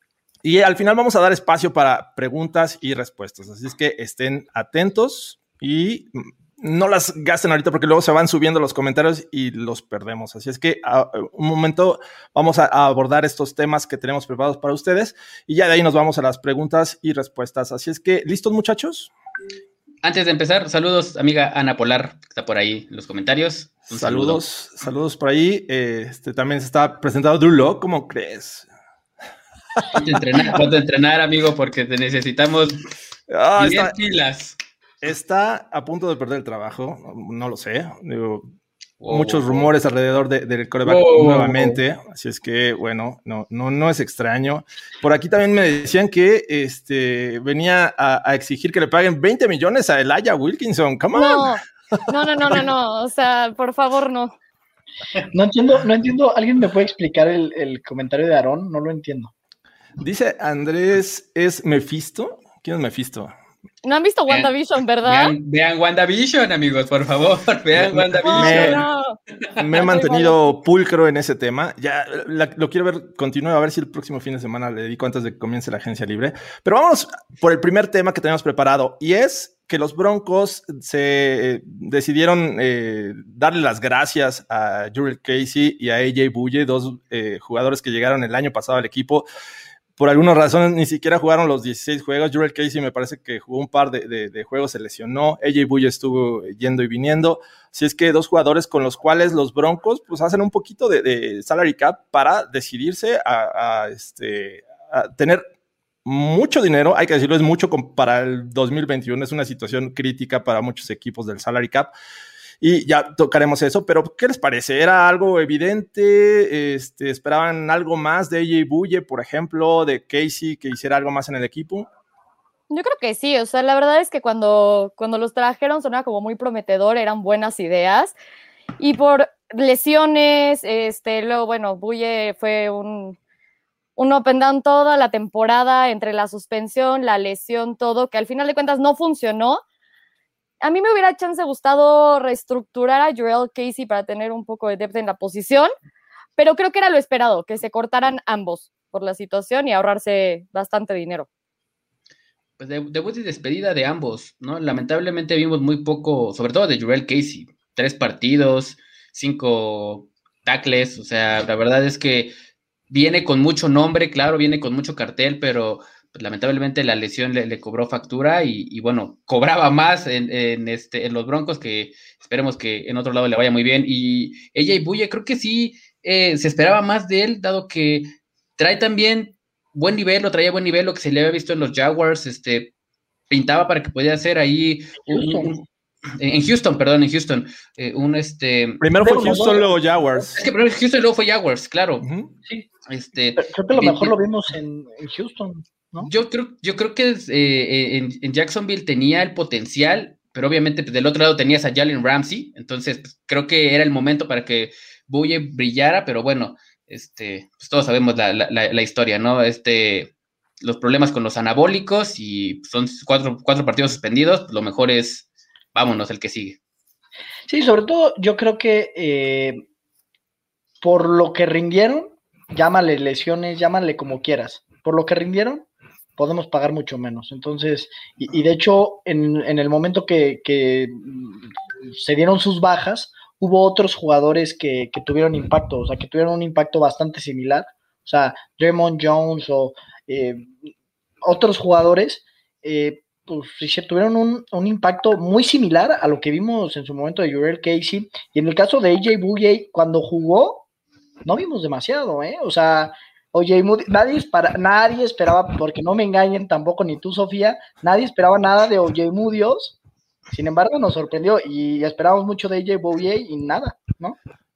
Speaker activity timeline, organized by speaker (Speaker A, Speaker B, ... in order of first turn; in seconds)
Speaker A: 0.4-19.1, 23.9-28.7, 33.3-33.9, 35.0-38.5, 39.1-51.6, 60.0-63.3, 67.7-68.8, 69.6-89.3, 90.0-105.4, 106.0-111.9, 112.6-121.9, 188.8-190.4, 192.0-192.3
Speaker B: 20.0-24.4, 29.9-32.8, 33.6-34.6, 39.0-39.7, 40.9-41.8, 65.0-68.8, 152.6-162.3, 162.9-182.7, 183.3-185.6, 186.2-188.8, 190.4-192.1, 192.9-194.1, 196.0-216.6
Speaker C: 51.1-54.3, 63.8-65.3, 68.2-69.2, 69.8-70.5, 122.7-128.1, 128.8-133.2, 134.0-139.6, 140.6-145.7, 146.4-151.3
Speaker D: 55.3-59.3, 185.1-185.6, 189.0-190.3, 193.4-196.1, 217.5-219.6, 220.8-225.7, 226.2-240.5, 241.2-250.7, 251.2-259.8, 260.3-264.2